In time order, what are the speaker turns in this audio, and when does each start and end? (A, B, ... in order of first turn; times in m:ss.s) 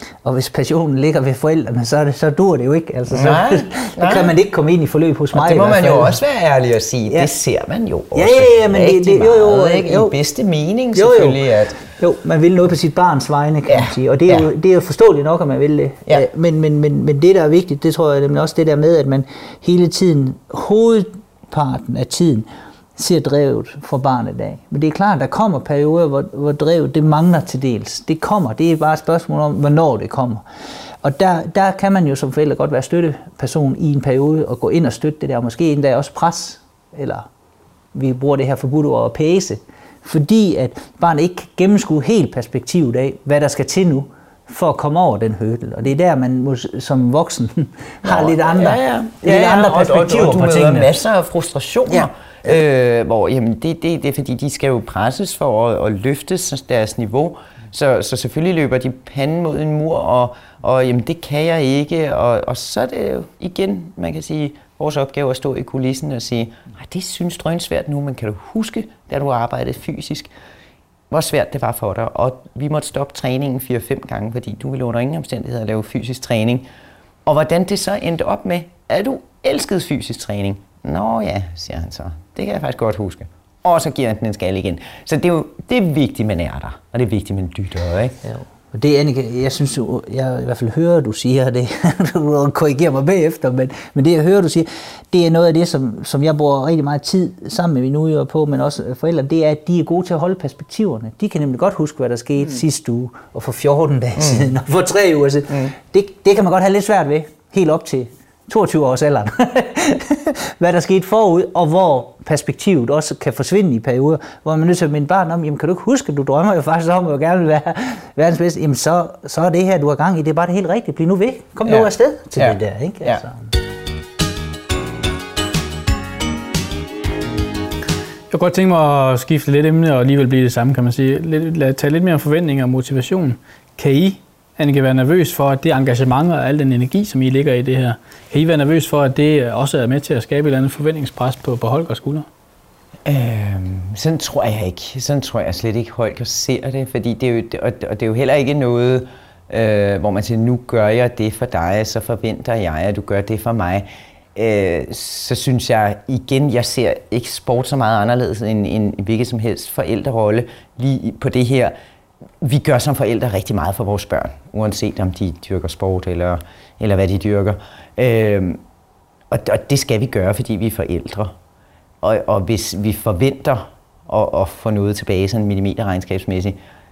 0:00.2-0:06.1 A
0:03.1-0:04.3 B
0:05.3-0:11.8 B
0:08.1-0:10.1 A
0:10.9-0:30.4 A
0:13.7-0:14.5 B
0:31.0-0:37.3 A
0:37.9-0:50.9 A
0:48.0-1:10.3 B
1:11.1-1:16.6 B
1:17.2-1:28.2 B
1:28.2-2:03.5 A
1:44.2-1:44.4 B
2:01.7-2:03.2 B
2:08.3-2:22.3 C
2:23.0-2:41.7 B
2:42.4-2:48.6 B
2:49.3-2:51.3 B
2:52.0-2:56.6 B